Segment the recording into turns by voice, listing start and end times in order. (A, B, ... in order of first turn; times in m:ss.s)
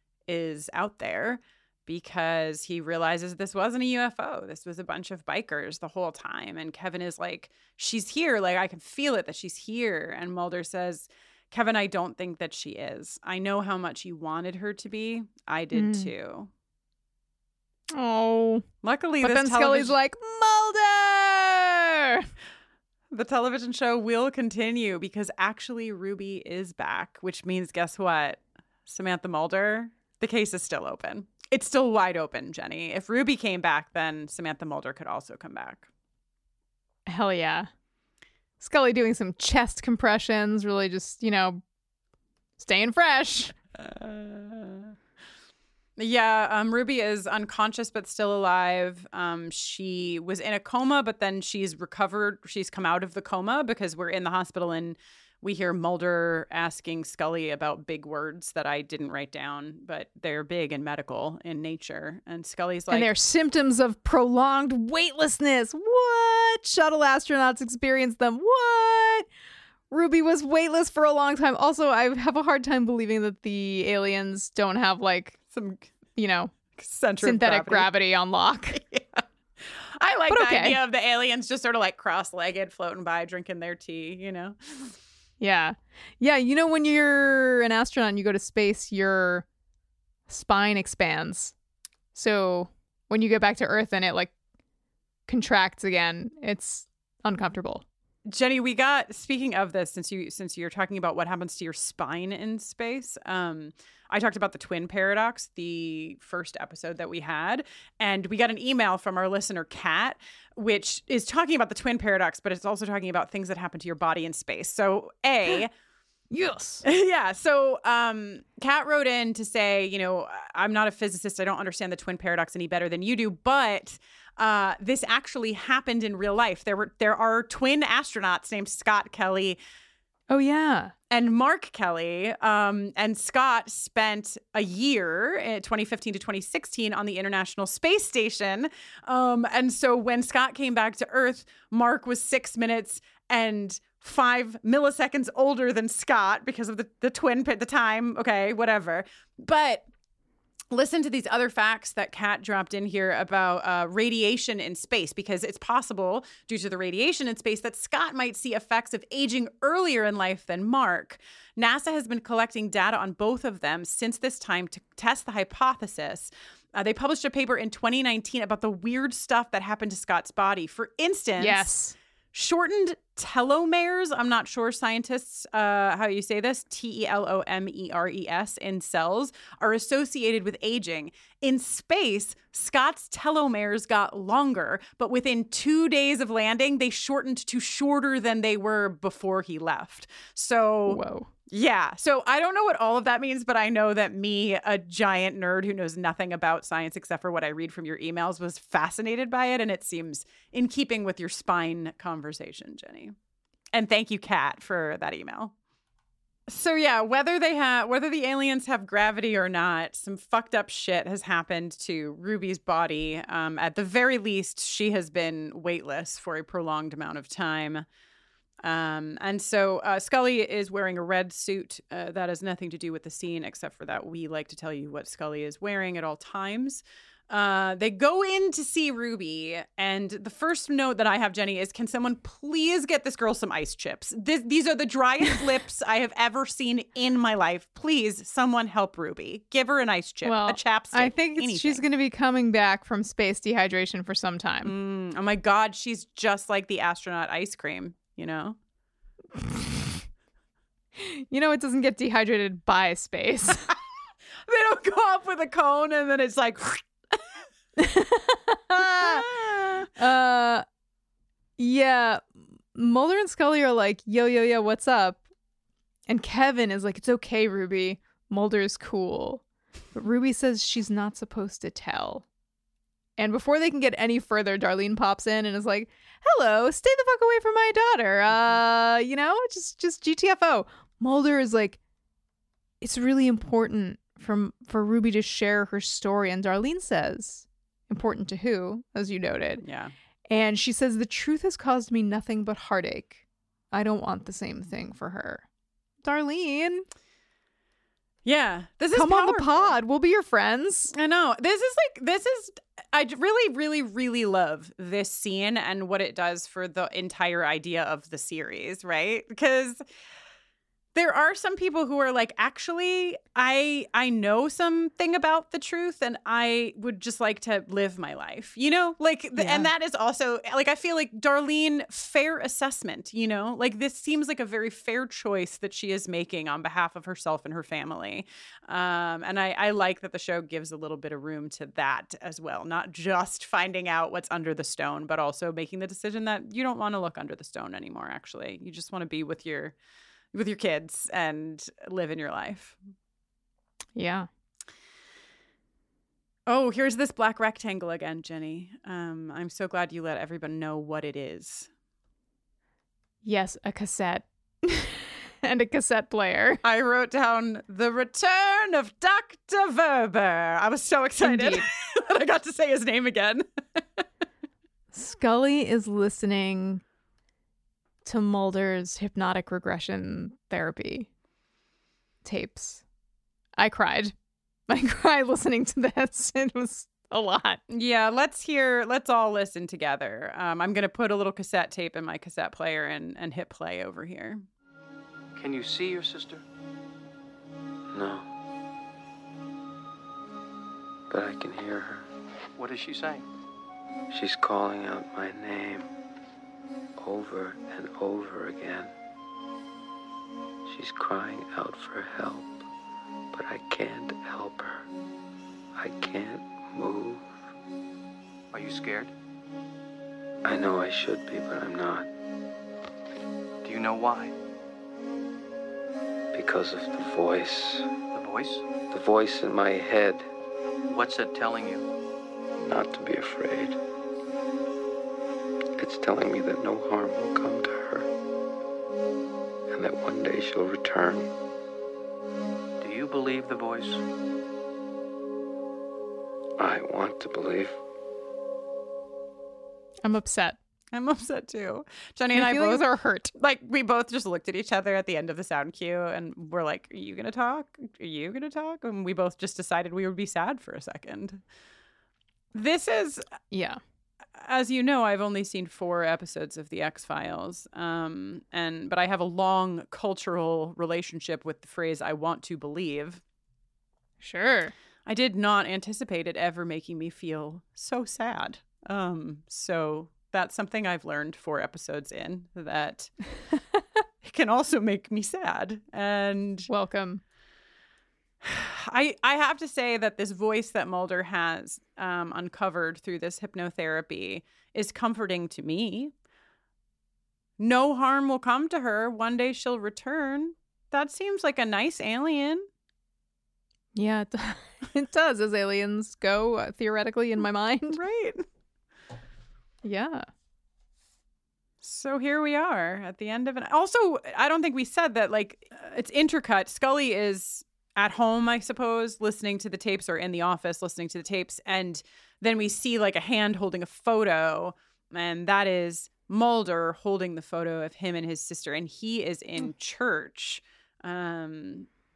0:00.3-0:16.5 A
0:15.7-0:16.1 B
0:17.9-0:18.6 B
0:18.8-0:19.9 A
0:19.2-0:22.3 B
0:23.1-0:35.9 A
0:37.1-0:37.7 B
0:38.6-0:41.6 B
0:42.6-0:43.5 B
0:43.8-0:44.9 A
0:46.0-1:03.1 A
1:02.9-1:09.2 B
1:09.9-1:15.4 B
1:15.5-1:15.9 A
1:16.2-1:16.5 B
1:16.8-1:17.9 A
1:17.2-1:18.8 B
1:18.7-1:24.9 A
1:20.3-1:20.8 B
1:25.4-1:29.4 B
1:30.3-1:31.5 B
1:32.1-1:34.3 B
1:35.3-1:37.8 B
1:38.3-1:55.7 A
1:56.3-1:56.8 B
1:56.8-2:09.6 A
2:10.3-2:10.9 B
2:11.1-2:29.9 A
2:30.7-2:51.7 A
2:51.4-2:51.9 B
2:52.3-3:23.1 A
3:10.9-3:11.3 B
3:23.7-3:25.5 A
3:26.5-3:37.8 A
3:38.6-4:01.8 A
4:00.2-4:04.7 B
4:04.6-4:08.6 A
4:09.4-4:09.8 B
4:11.0-4:13.6 B
4:14.4-4:17.2 A
4:17.8-4:19.2 B
4:18.8-4:19.9 A
4:20.0-4:20.6 B
4:21.6-4:25.2 B
4:26.1-4:29.4 B
4:29.9-4:32.2 B
4:33.2-4:41.8 B
4:42.8-4:49.6 B
4:49.6-4:49.9 A
4:50.3-4:53.2 B
4:53.7-4:55.4 B
4:56.0-4:56.9 B
4:58.2-4:59.7 A
4:58.9-5:00.9 B
5:00.9-5:09.8 A
5:10.9-5:39.7 A
5:19.4-5:19.7 B
5:40.3-5:42.8 A
5:44.0-5:44.3 B
5:46.5-5:51.7 A
5:53.2-5:56.6 B
5:56.6-6:03.4 A
6:01.2-6:01.6 B
6:04.9-6:06.8 B
6:08.0-6:11.1 B
6:12.2-6:12.8 B
6:13.6-6:14.1 B
6:14.7-6:17.6 B
6:17.7-6:24.4 A
6:25.3-6:26.4 C
6:27.9-6:28.2 D
6:31.1-6:32.1 D
6:32.6-6:33.2 C
6:34.1-6:35.9 D
6:37.0-6:38.9 D
6:40.6-6:42.6 D
6:43.3-6:44.9 D
6:45.7-6:47.3 D
6:48.5-6:49.1 C
6:50.4-6:52.1 D
6:53.6-6:54.3 C
6:56.3-6:57.9 D
6:58.1-6:58.6 C
6:58.9-7:00.3 D
7:00.9-7:01.9 C
7:02.6-7:03.8 D
7:05.8-7:08.1 D
7:09.7-7:11.3 D
7:12.8-7:14.0 C
7:16.6-7:17.8 D
7:20.0-7:20.6 B
7:20.9-7:31.4 A
7:22.3-7:23.3 B
7:32.5-7:33.2 A
7:33.5-7:33.8 B
7:34.4-7:43.2 A
7:44.2-7:44.7 B
7:45.0-7:53.1 A
7:54.2-7:56.7 A
7:56.7-7:57.2 B
7:58.4-8:06.1 A
8:07.6-8:12.6 A
8:13.9-8:18.0 B
8:17.9-8:18.4 A
8:19.8-8:20.3 B
8:21.8-8:41.9 A